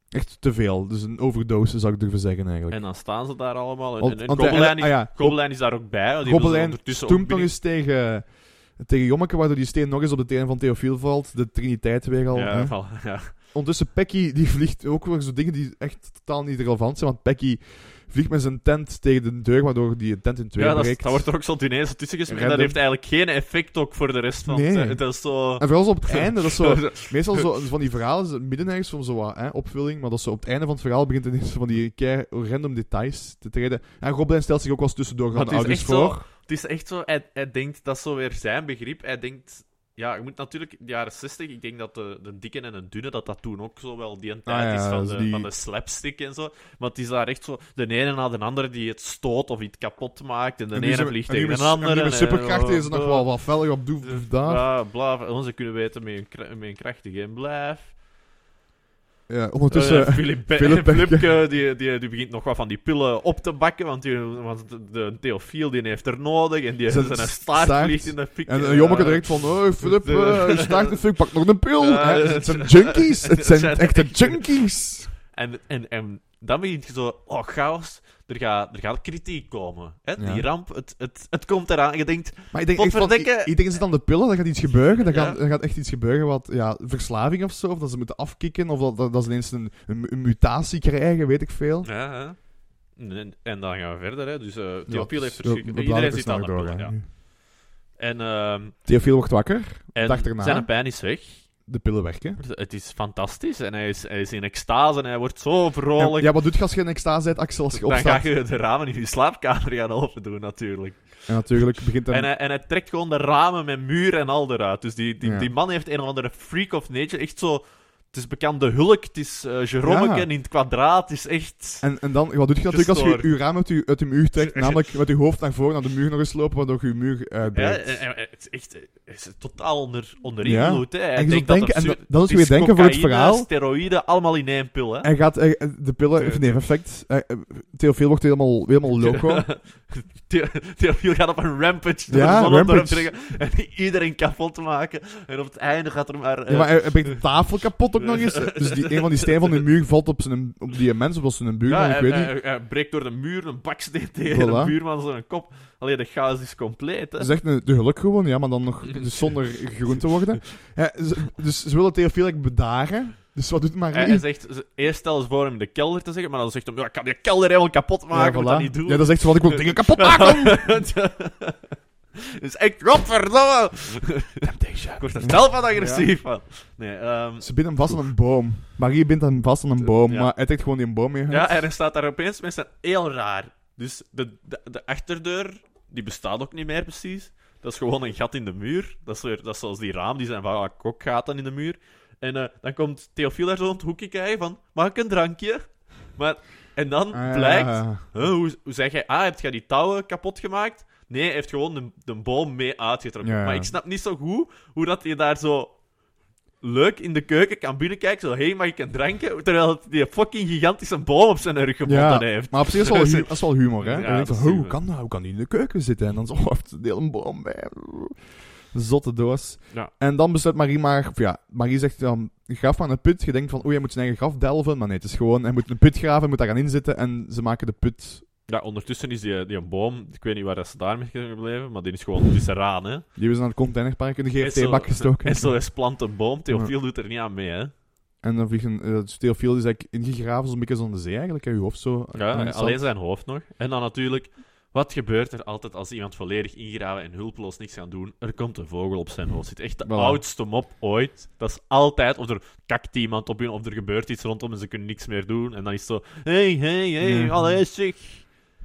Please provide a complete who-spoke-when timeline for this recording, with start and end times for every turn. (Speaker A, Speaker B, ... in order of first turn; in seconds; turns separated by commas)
Speaker A: 0.1-2.8, Speaker B: 2.7-7.5, Speaker A: 4.0-21.4, Speaker B: 12.3-13.3, Speaker B: 20.6-27.5, Speaker A: 22.3-22.8, Speaker A: 24.4-36.2, Speaker B: 35.3-57.9, Speaker A: 44.5-45.5, Speaker A: 50.7-54.6, Speaker A: 59.3-61.3, Speaker B: 59.7-71.0, Speaker A: 66.9-75.1, Speaker B: 71.8-74.7, Speaker B: 75.2-83.6, Speaker A: 80.2-80.5, Speaker A: 82.5-91.9, Speaker B: 84.9-85.4, Speaker B: 91.8-97.2, Speaker A: 94.9-97.0, Speaker B: 97.9-98.8, Speaker A: 98.8-100.8, Speaker B: 99.9-101.5, Speaker A: 101.6-102.4, Speaker B: 102.4-106.3, Speaker A: 106.0-108.3, Speaker B: 107.7-121.9, Speaker A: 111.3-112.3, Speaker A: 115.2-115.5, Speaker A: 119.8-120.3, Speaker A: 121.8-128.0, Speaker B: 122.7-123.3, Speaker B: 124.4-125.0, Speaker B: 127.5-135.1, Speaker A: 130.4-133.5, Speaker A: 135.0-139.5, Speaker B: 136.2-136.6, Speaker B: 139.0-147.2, Speaker A: 142.1-143.1, Speaker A: 146.5-152.3, Speaker B: 148.0-149.6, Speaker B: 151.7-157.3, Speaker A: 154.2-154.7, Speaker A: 157.2-164.2, Speaker B: 158.9-160.0, Speaker B: 163.9-178.1, Speaker A: 168.1-170.7, Speaker A: 174.4-176.1, Speaker A: 177.4-181.6, Speaker B: 179.8-180.3, Speaker B: 181.3-205.8, Speaker A: 197.1-198.3, Speaker A: 203.2-203.7, Speaker B: 206.6-214.8, Speaker A: 211.8-228.3, Speaker B: 228.5-233.1, Speaker A: 233.1-235.8, Speaker B: 234.4-237.7, Speaker A: 238.2-242.8, Speaker B: 242.1-258.3, Speaker A: 249.8-250.2, Speaker A: 257.0-257.6